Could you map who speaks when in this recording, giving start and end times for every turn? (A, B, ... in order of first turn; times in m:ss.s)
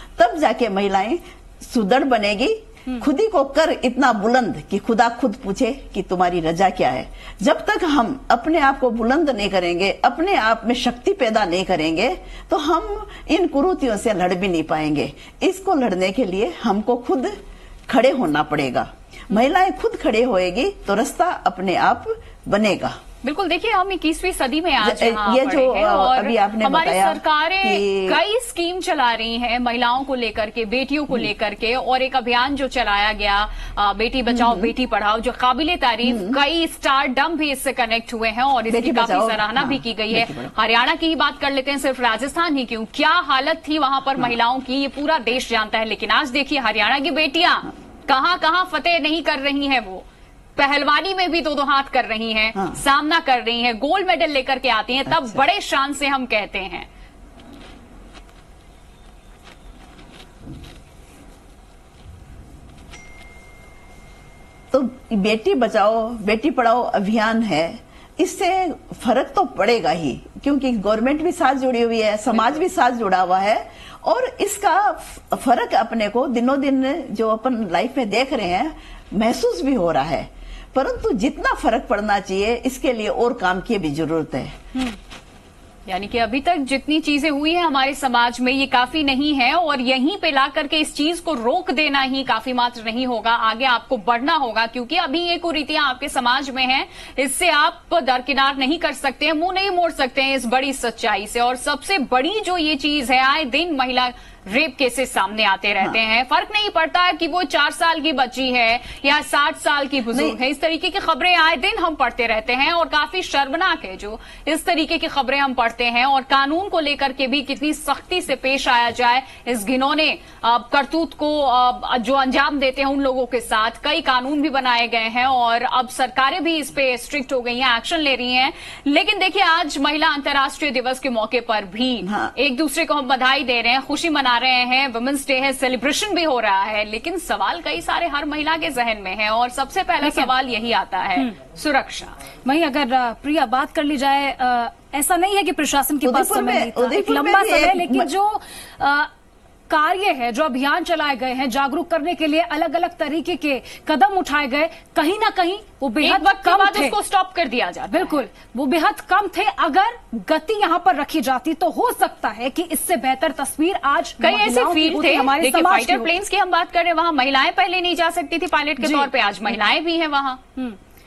0:00.2-0:23.0 A
0:23.2-0:56.9 B
0:24.8-0:28.2 A
0:34.3-0:34.7 A
0:36.0-0:36.4 A
0:38.7-0:40.5 A
0:55.1-0:55.4 A
1:04.7-1:24.6 A
1:25.9-2:22.2 B
2:12.0-2:12.3 A
2:20.0-2:20.3 C
2:22.4-2:29.1 C
2:26.0-2:28.1 A
2:29.7-2:37.0 C
2:36.0-2:38.2 B
2:37.9-2:46.1 C
2:44.2-2:50.4 B
2:48.8-2:49.6 C